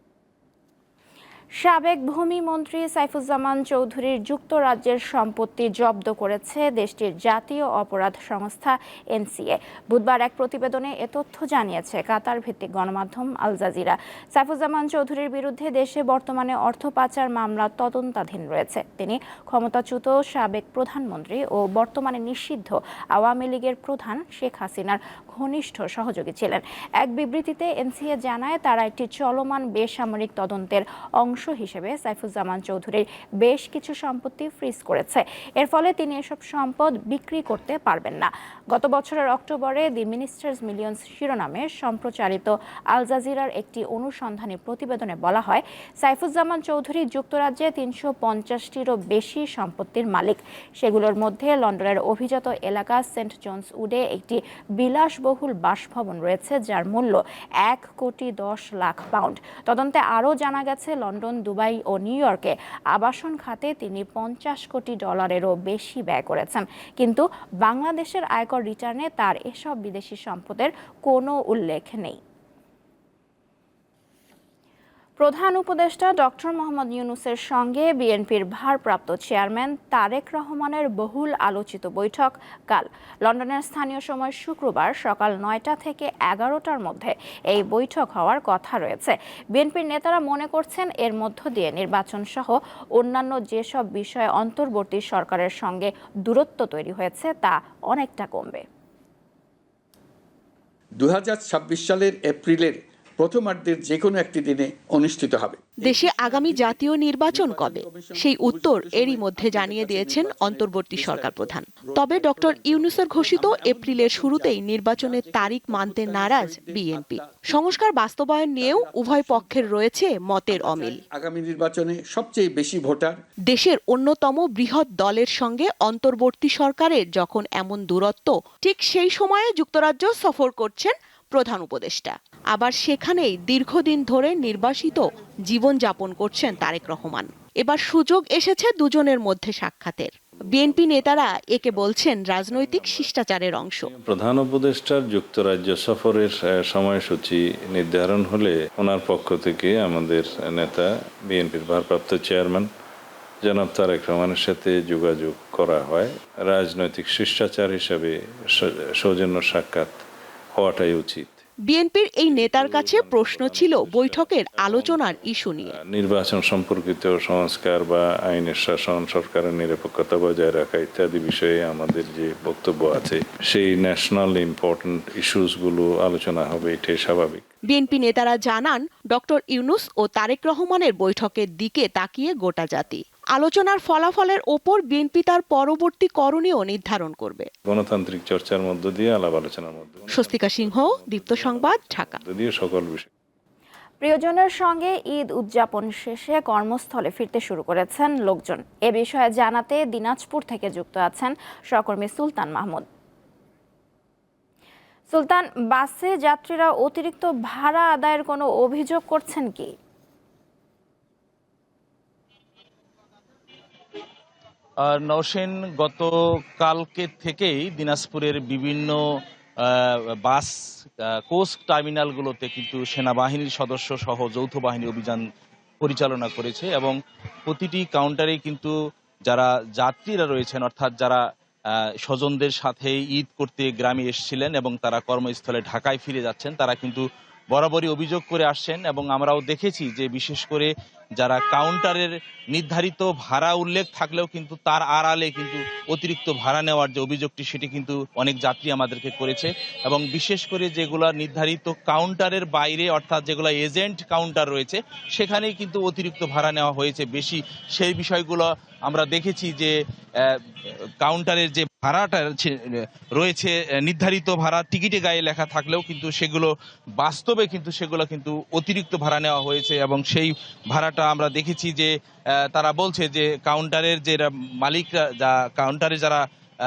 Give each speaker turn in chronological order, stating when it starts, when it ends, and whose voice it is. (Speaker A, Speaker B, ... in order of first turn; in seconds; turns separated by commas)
Speaker A: 1.6-72.2, Speaker A: 75.2-98.6, Speaker B: 101.0-117.9, Speaker C: 105.8-120.9, Speaker B: 118.6-119.8, Speaker B: 120.5-123.2, Speaker C: 123.5-143.8, Speaker D: 143.9-152.7, Speaker D: 153.4-160.0, Speaker D: 160.6-161.4, Speaker C: 161.7-165.7, Speaker D: 162.3-177.4, Speaker C: 177.7-187.5, Speaker D: 187.7-193.1, Speaker C: 190.1-192.1, Speaker A: 194.0-202.9, Speaker A: 205.1-209.7, Speaker E: 214.8-219.0, Speaker E: 219.6-220.5, Speaker E: 221.1-225.2, Speaker E: 225.8-227.0, Speaker E: 227.5-228.7, Speaker E: 229.3-231.2, Speaker E: 231.7-260.4, Speaker E: 261.0-262.5, Speaker E: 263.2-271.9, Speaker E: 272.5-276.2